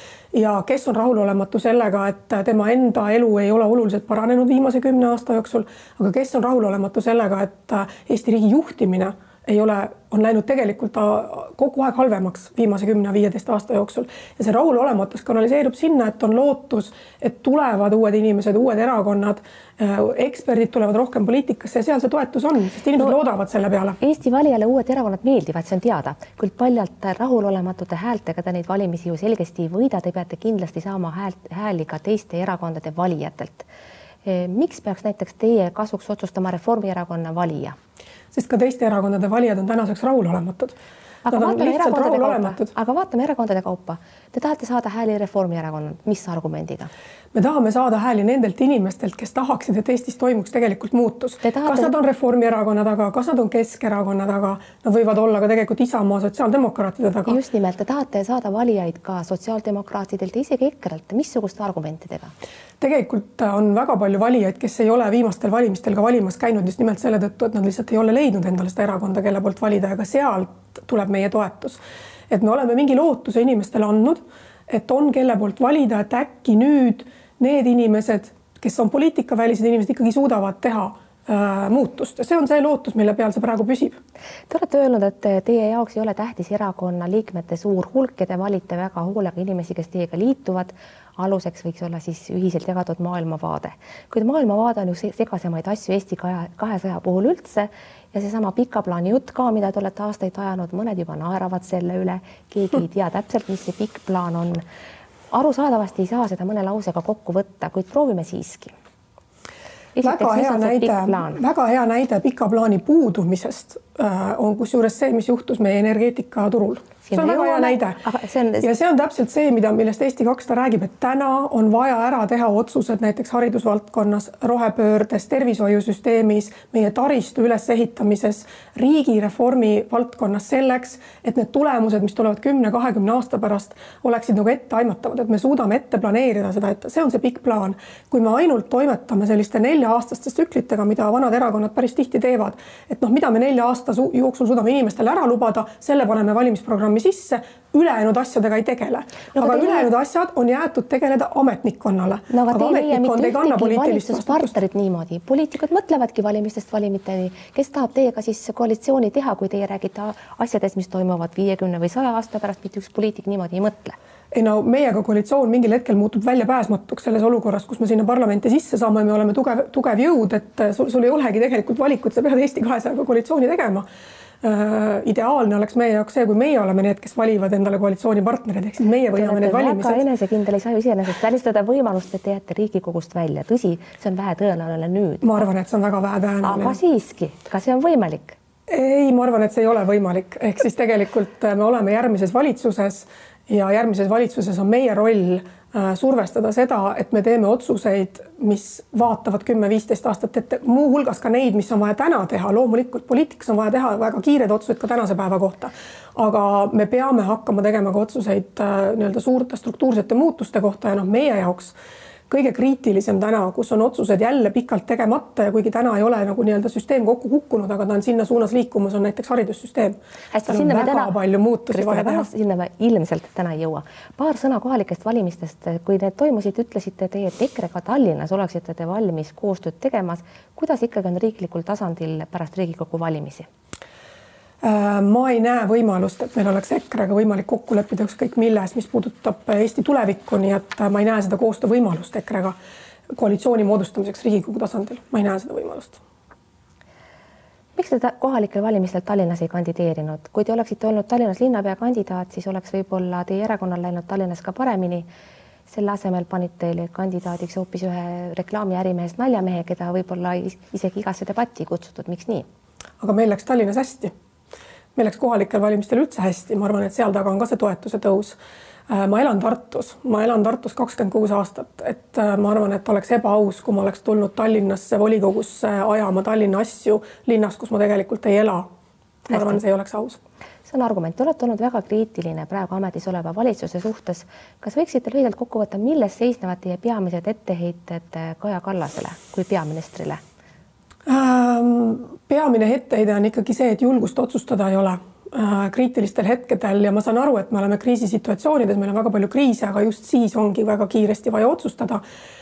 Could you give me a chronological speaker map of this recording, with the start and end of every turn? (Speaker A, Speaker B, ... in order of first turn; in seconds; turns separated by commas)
Speaker A: 0.3-24.0, Speaker B: 24.0-33.7, Speaker B: 34.2-37.8, Speaker A: 38.3-40.8, Speaker B: 41.2-46.9, Speaker A: 41.3-42.7, Speaker A: 47.3-57.4, Speaker B: 51.4-52.0, Speaker B: 57.3-62.3, Speaker A: 62.8-84.0, Speaker B: 84.5-104.6, Speaker B: 105.3-108.7, Speaker B: 110.0-111.4, Speaker A: 110.0-118.0, Speaker B: 117.0-118.7, Speaker A: 118.6-154.6, Speaker B: 149.3-149.9, Speaker B: 152.3-164.0, Speaker A: 164.3-173.9, Speaker A: 174.4-180.1, Speaker B: 179.1-185.4, Speaker A: 185.2-186.8, Speaker B: 186.4-188.4, Speaker A: 188.7-211.8, Speaker A: 212.3-222.3, Speaker B: 220.3-221.1, Speaker B: 221.7-233.5, Speaker A: 234.6-242.6, Speaker A: 243.2-246.0, Speaker B: 247.8-255.1, Speaker B: 255.7-262.5, Speaker A: 263.0-264.1, Speaker A: 265.0-268.4, Speaker A: 268.9-278.7, Speaker A: 279.3-280.2, Speaker B: 279.3-279.6, Speaker B: 280.7-290.2, Speaker A: 291.1-302.0